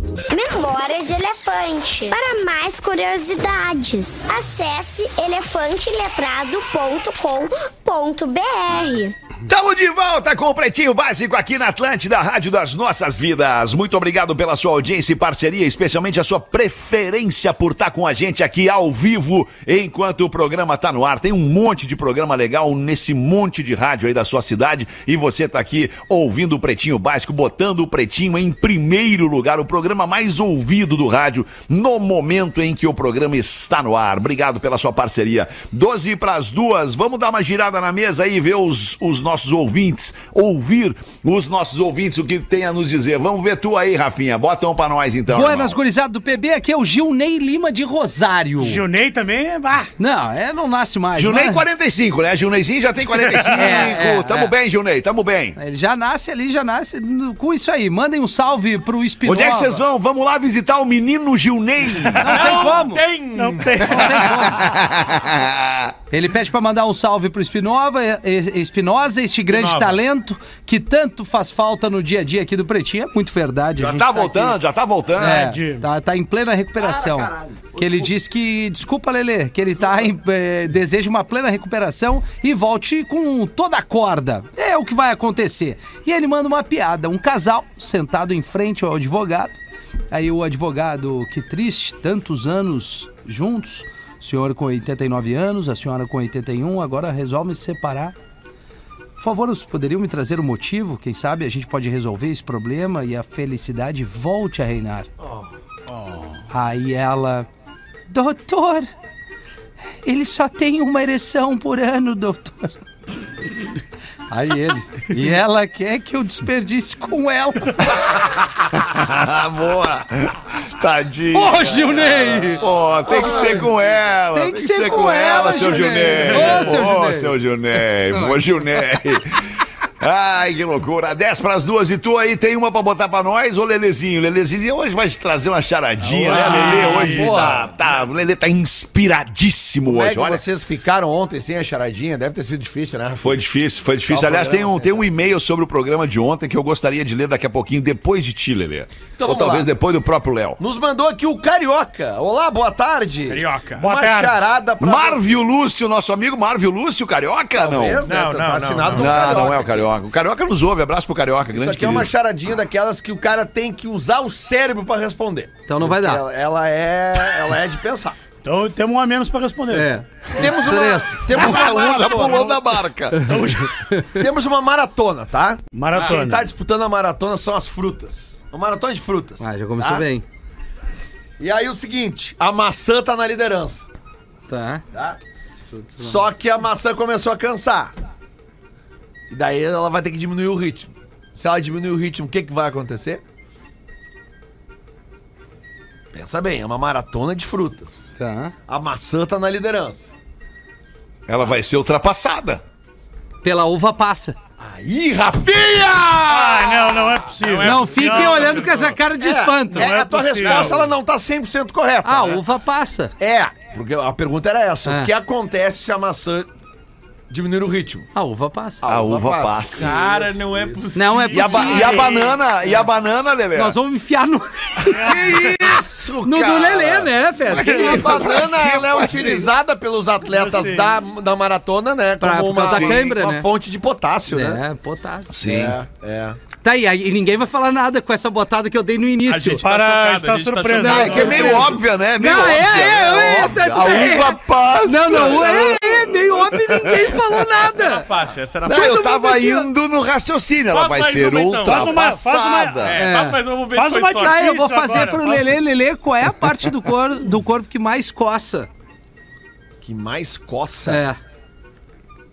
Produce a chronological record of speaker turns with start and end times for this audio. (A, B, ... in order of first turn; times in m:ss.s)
0:00.3-0:09.1 A
0:09.4-0:45.8 B
0:45.3-0:48.8 C
0:48.6-0:49.9 D
0:50.0-0:51.6 C
0:51.1-0:55.6 B
0:53.5-0:54.5 C
0:55.6-0:59.8 C
0:59.2-1:02.4 B
1:02.2-1:03.0 C
1:02.2-1:02.8 D
1:02.2-1:04.0 E
1:03.3-1:04.5 D
1:03.8-1:04.6 C
1:04.3-1:05.9 B
1:06.1-1:14.6 C
1:09.5-1:10.0 E
1:13.8-1:15.5 B
1:15.2-1:29.6 C
1:15.2-1:15.9 D
1:16.8-1:18.1 F
1:30.1-1:38.1 C
1:39.2-1:45.1 C
1:45.2-1:45.5 F
1:46.5-1:47.5 C
1:48.1-1:48.9 C
1:50.0-1:52.7 C
1:54.3-1:57.9 C
1:58.6-2:20.4 B
2:01.3-2:03.7 C
2:04.3-2:07.4 C
2:06.4-2:06.7 D
2:08.1-2:08.6 C
2:16.0-2:17.4 D
2:16.2-2:17.7 F
2:19.8-2:23.4 F
2:23.2-2:30.6 B
2:24.1-2:25.1 F
2:29.2-2:29.7 F
2:30.6-2:35.4 F
2:33.3-2:33.8 E
2:33.8-2:34.5 D
2:34.8-2:38.0 B
2:37.6-2:39.9 F
2:38.0-2:39.4 E
2:38.9-2:42.1 B
2:41.5-2:48.2 F
2:45.7-2:46.2 C
2:48.4-2:49.9 D
2:49.7-2:51.4 C
2:50.3-2:52.5 F
2:51.3-2:53.4 B
2:53.2-2:53.7 D
2:53.9-2:54.2 C
2:54.2-3:00.0 F
2:55.7-2:56.5 D
2:59.4-3:00.2 C
3:01.4-3:03.8 F
3:04.5-3:04.8 C
3:04.9-3:05.2 F
3:05.7-3:06.3 C
3:06.0-3:07.9 F
3:09.3-3:13.2 F
3:16.1-3:18.1 F
3:18.2-3:18.5 C
3:18.7-3:20.1 F
3:21.3-3:22.6 B
3:23.4-3:24.4 C
3:24.6-3:26.6 F
3:26.2-3:29.0 E
3:26.2-3:28.6 D
3:27.6-3:30.0 C
3:29.2-3:32.4 F
3:29.7-3:30.8 D
3:30.4-3:30.9 E
3:32.0-3:33.1 C
3:33.2-3:36.5 F
3:34.8-3:35.1 C
3:37.3-3:38.1 F
3:38.1-3:38.8 C
3:38.8-3:40.9 F
3:38.8-3:39.9 B
3:39.7-3:42.4 E
3:40.9-3:42.1 C
3:41.3-3:43.8 B
3:43.5-3:45.6 C
3:44.9-3:45.8 D
3:44.9-3:49.5 B
3:46.2-3:48.4 C
3:47.5-3:54.6 F
3:50.2-3:50.9 D
3:52.2-3:53.5 C
3:52.6-3:53.0 B
3:54.3-3:55.4 C
3:55.3-3:55.8 B
3:55.4-3:56.4 F
3:56.6-3:59.6 C
3:59.3-4:01.6 E
3:59.6-4:01.6 D
4:00.7-4:08.0 C
4:00.8-4:07.2 B
4:02.7-4:03.9 F
4:07.6-4:09.2 E
4:08.6-4:13.0 B
4:08.7-4:09.6 C
4:10.7-4:12.0 E
4:11.6-4:13.0 D
4:12.8-4:15.2 E
4:12.9-4:13.4 C
4:13.7-4:15.5 D
4:14.1-4:18.7 C
4:19.8-4:21.0 F
4:20.9-4:21.2 C